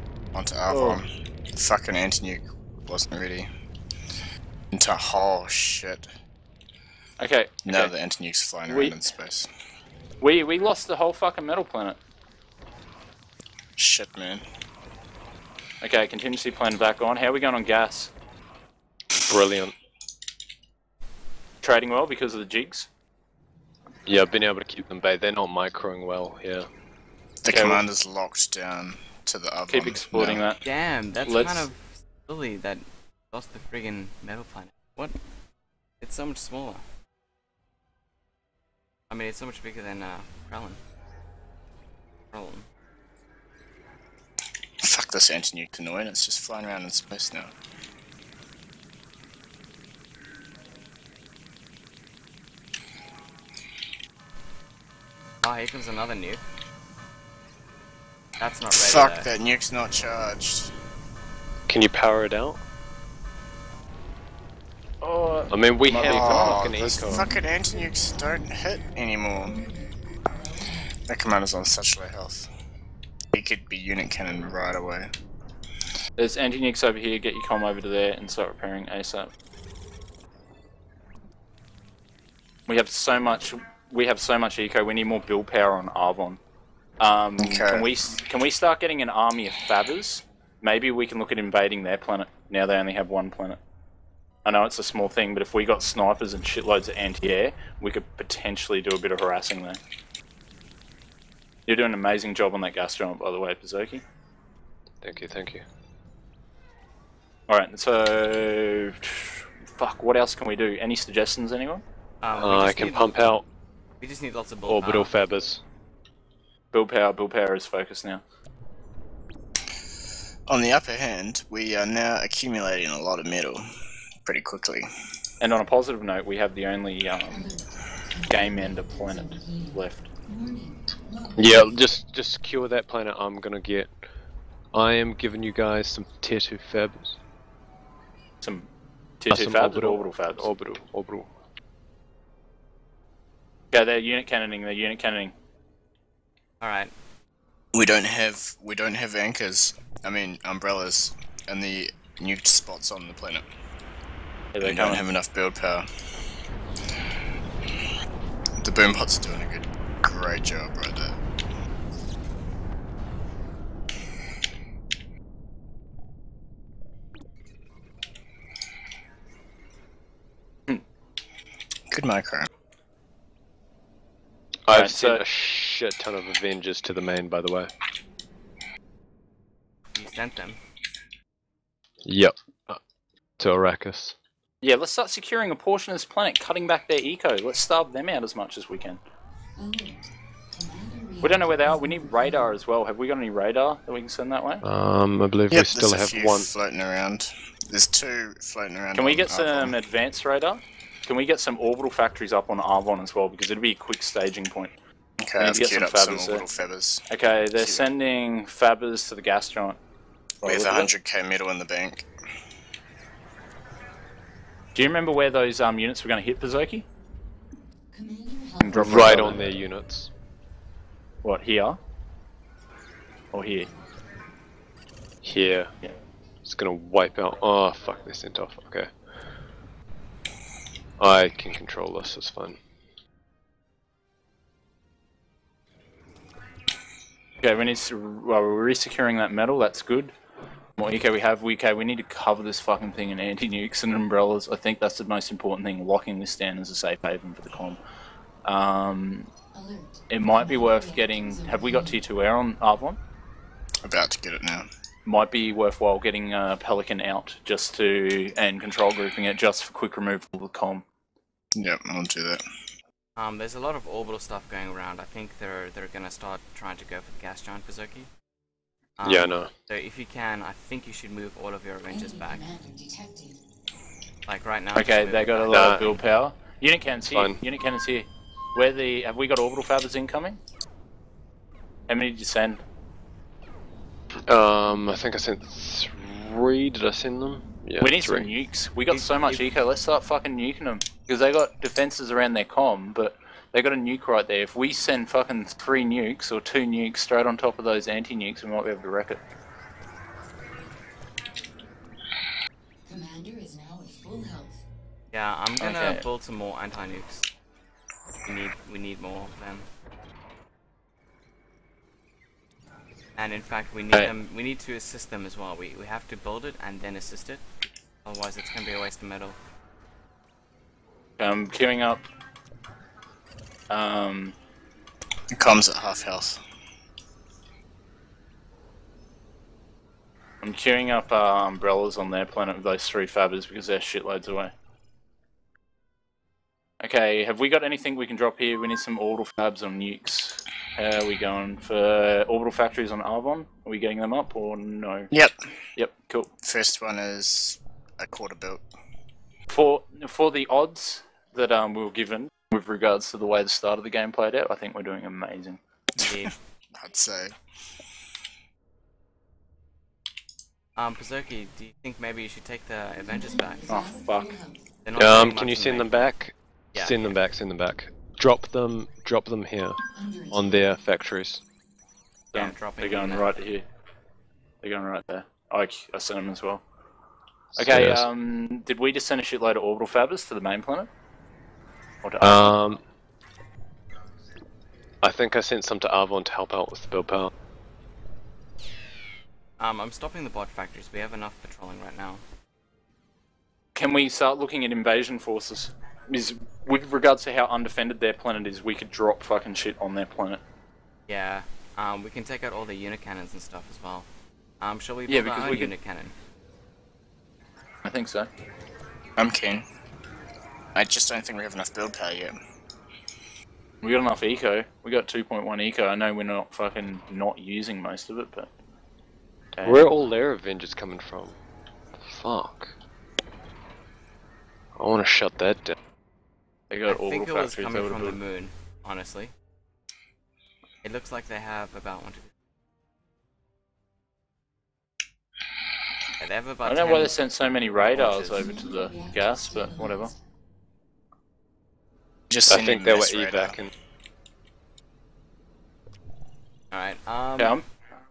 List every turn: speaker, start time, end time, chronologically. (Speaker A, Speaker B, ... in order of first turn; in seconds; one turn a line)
Speaker A: 0.3-3.5
Speaker B: 0.7-1.0
Speaker A: 4.7-6.1
Speaker B: 7.2-7.9
Speaker A: 7.6-9.5
Speaker B: 8.7-8.9
Speaker B: 10.2-12.0
Speaker A: 13.8-14.4
Speaker B: 15.8-18.1
Speaker C: 19.2-19.7
Speaker B: 21.6-22.9
Speaker C: 24.1-26.7
Speaker A: 27.4-30.4
Speaker B: 27.5-27.8
Speaker B: 29.7-30.6
Speaker D: 30.6-35.1
Speaker B: 31.2-31.7
Speaker D: 36.0-36.8
Speaker D: 39.1-40.8
Speaker D: 42.3-42.6
Speaker A: 44.8-47.5
Speaker D: 55.4-56.4
Speaker D: 58.4-59.3
Speaker A: 58.7-60.7
Speaker C: 61.7-62.6
Speaker B: 65.0-66.9
Speaker C: 65.5-67.3
Speaker A: 66.0-69.6
Speaker E: 67.2-71.0
Speaker A: 71.1-72.5
Speaker A: 73.3-75.1
Speaker B: 76.2-79.3
Speaker B: 82.7-86.4
Speaker B: 87.0-93.6
Speaker A: 87.4-87.9
Speaker B: 94.4-99.8
Speaker B: 101.7-104.0
Speaker C: 105.0-105.6
Speaker B: 107.5-111.8
Speaker D: 112.2-113.2
Speaker C: 112.3-113.4
Speaker D: 114.0-115.1
Speaker C: 114.6-115.6
Speaker B: 116.7-118.2
Speaker A: 120.5-123.7
Speaker A: 124.2-124.9
Speaker B: 125.4-127.4
Speaker E: 127.3-132.0
Speaker B: 128.3-130.1
Speaker C: 131.3-133.9
Speaker C: 134.7-137.2
Speaker B: 138.4-138.7
Speaker B: 139.2-140.5
Speaker C: 139.3-141.3
Speaker B: 143.7-145.3
Speaker D: 146.6-146.9
Speaker A: 147.7-153.4
Speaker B: 154.5-155.0
Speaker A: 154.6-155.9
Speaker A: 158.6-161.2
Speaker A: 171.9-172.5
Speaker C: 174.7-177.7
Speaker B: 174.7-175.2
Speaker D: 179.9-180.6
Speaker C: 182.0-182.8
Speaker C: 183.4-184.1
Speaker B: 184.6-189.0
Speaker E: 189.6-192.6
Speaker B: 191.2-194.6
Speaker C: 194.6-196.5
Speaker A: 195.5-199.8
Speaker B: 198.9-204.7
Speaker A: 205.2-207.0
Speaker B: 205.4-206.4
Speaker B: 207.1-209.8
Speaker A: 207.6-207.8
Speaker A: 210.4-212.1
Speaker B: 210.4-210.9
Speaker B: 214.7-216.8
Speaker E: 217.9-219.3
Speaker B: 218.6-219.4
Speaker C: 218.7-220.1
Speaker B: 221.2-221.8
Speaker B: 223.3-223.7
Speaker C: 225.2-225.7
Speaker C: 226.4-228.9
Speaker C: 231.0-232.6
Speaker B: 237.4-240.1
Speaker B: 240.8-247.8
Speaker B: 248.4-249.3
Speaker E: 249.5-252.0
Speaker B: 250.1-253.0
Speaker A: 253.8-254.7
Speaker B: 255.1-260.8
Speaker A: 261.5-262.4
Speaker D: 263.1-268.1
Speaker D: 269.0-272.4
Speaker C: 269.0-269.5
Speaker E: 271.9-273.4
Speaker D: 274.2-275.9
Speaker B: 274.8-280.4
Speaker C: 275.5-275.9
Speaker C: 277.1-277.4
Speaker B: 281.9-282.6
Speaker C: 284.3-288.3
Speaker B: 287.8-299.2
Speaker D: 288.9-289.5
Speaker E: 302.9-304.6
Speaker D: 305.1-307.3
Speaker B: 305.6-306.0
Speaker D: 308.2-309.7
Speaker D: 313.2-317.4
Speaker D: 318.0-319.4
Speaker B: 321.2-322.1
Speaker B: 323.7-324.3
Speaker A: 325.3-326.4
Speaker B: 330.4-334.5
Speaker B: 336.8-345.1
Speaker B: 345.8-346.3
Speaker A: 346.4-348.6
Speaker B: 349.5-355.6
Speaker A: 356.0-357.4
Speaker D: 356.0-356.3
Speaker D: 360.8-363.7
Speaker E: 363.0-364.7
Speaker B: 363.7-364.3
Speaker D: 364.8-366.0
Speaker C: 364.9-369.8
Speaker D: 366.7-367.2
Speaker E: 369.9-370.8
Speaker C: 370.3-371.4
Speaker D: 372.3-373.3
Speaker B: 372.3-373.6
Speaker B: 374.6-376.6
Speaker C: 377.6-378.1
Speaker B: 377.6-380.9
Speaker B: 382.0-382.5
Speaker C: 382.2-382.8
Speaker C: 385.0-387.3
Speaker D: 389.6-392.2
Speaker B: 393.7-400.4
Speaker D: 401.1-404.1
Speaker D: 404.6-406.1
Speaker B: 405.1-405.7
Speaker B: 407.8-408.3
Speaker A: 409.2-409.6
Speaker A: 410.7-412.4
Speaker B: 413.8-418.5
Speaker B: 419.6-419.9
Speaker C: 419.6-421.3
Speaker C: 422.0-422.7
Speaker C: 424.8-425.8
Speaker B: 426.7-428.2
Speaker D: 426.9-429.3
Speaker D: 430.8-432.3
Speaker D: 436.2-437.1
Speaker B: 436.6-440.1
Speaker D: 437.9-438.6
Speaker E: 438.1-440.2
Speaker A: 442.3-443.6
Speaker C: 442.5-443.7
Speaker D: 446.7-447.6
Speaker B: 447.4-447.6